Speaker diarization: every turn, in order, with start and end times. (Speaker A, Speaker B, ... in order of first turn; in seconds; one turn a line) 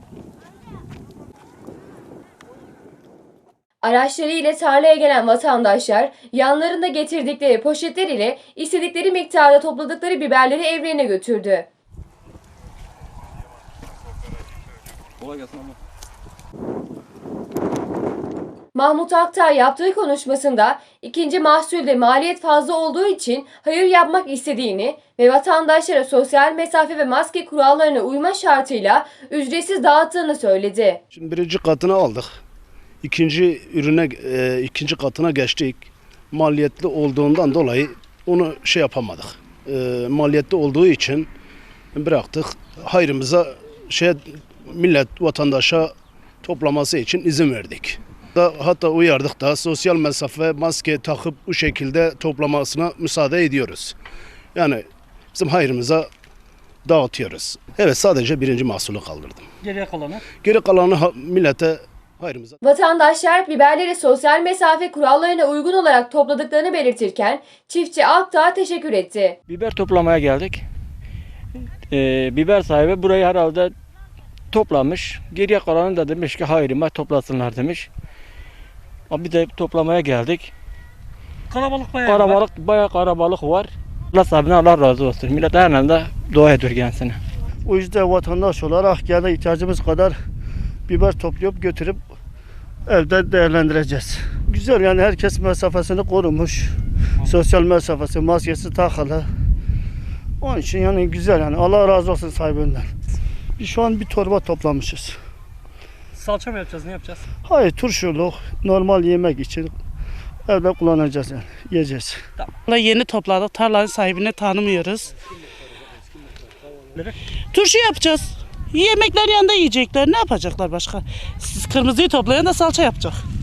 Speaker A: 3.8-11.7
Speaker A: 18.7-31.0
Speaker B: 31.1-32.3
Speaker B: 33.0-41.3
Speaker B: 41.9-54.0
Speaker B: 54.5-56.1
Speaker B: 56.8-59.5
Speaker C: 59.6-60.2
Speaker B: 60.4-62.6
Speaker A: 62.6-69.4
Speaker D: 69.5-70.6
Speaker D: 71.9-73.7
Speaker D: 74.5-77.9
Speaker D: 79.1-80.5
Speaker C: 81.5-82.4
Speaker D: 82.0-87.2
Speaker E: 87.7-90.1
Speaker E: 90.9-92.0
Speaker E: 92.9-99.3
Speaker E: 100.4-102.8
Speaker E: 103.6-105.2
Speaker C: 106.2-107.2
Speaker E: 107.5-109.7
Speaker E: 110.5-112.2
Speaker F: 112.7-115.1
Speaker C: 116.9-117.2
Speaker F: 117.5-123.2